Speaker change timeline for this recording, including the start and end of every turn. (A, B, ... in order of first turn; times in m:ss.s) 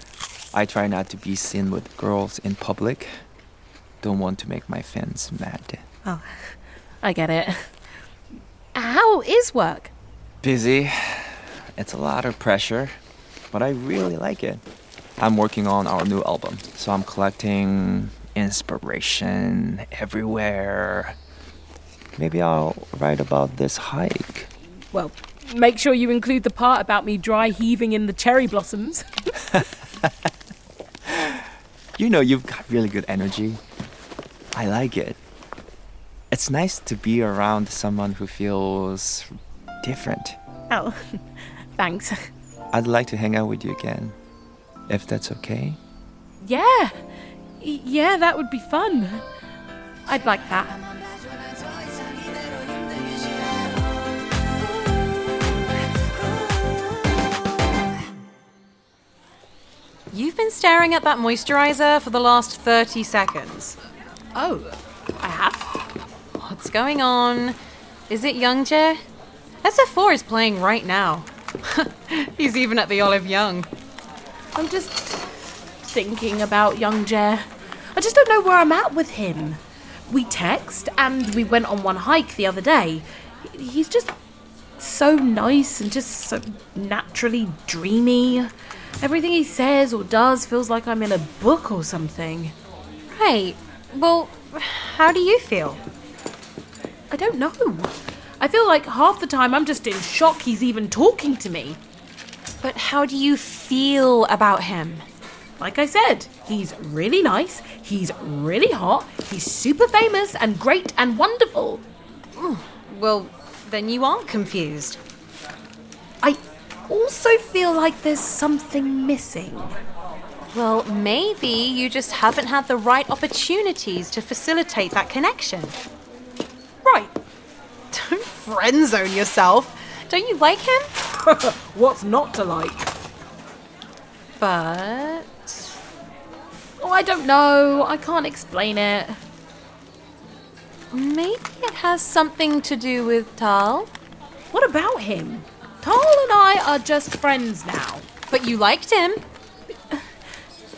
0:00.5-0:03.1 A
0:04.0-0:05.8 A
0:06.0-0:07.7 B
0:08.7-0:09.9 B
0:10.4-0:13.0 A
0:13.5-0:14.6 A
0:15.2-0:21.2 A
0:22.2-0:24.5 A
0:24.9-0:29.0 B
0:31.0-0:31.5 A
0:32.0-0:33.6 A
0:34.5-0:35.2 A
0:36.3-0:40.4 A
0:40.7-0:41.2 B
0:41.8-0:42.3 B
0:42.7-0:44.1 A
0:44.9-0:45.8 A
0:46.4-0:47.0 B
0:47.6-0:49.2 B
0:50.1-0:50.8 B
1:00.1-1:03.8 C
1:04.3-1:05.8 B
1:06.4-1:07.6 C
1:08.1-1:09.0 C
1:09.6-1:13.7 C
1:14.6-1:15.2 B
1:15.8-1:24.1 B
1:24.8-1:32.5 B
1:33.1-1:35.8 C
1:37.1-1:41.8 B
1:42.6-1:45.0 C
1:45.6-1:51.8 B
1:52.4-1:55.0 C
1:56.2-1:59.7 B
2:00.5-2:05.8 C
2:06.8-2:07.1 B
2:07.9-2:10.9 C
2:11.2-2:12.9 B
2:14.4-2:15.8 C
2:16.8-2:19.2 B
2:20.9-2:23.9 C
2:24.5-2:28.0 B
2:28.3-2:29.2 C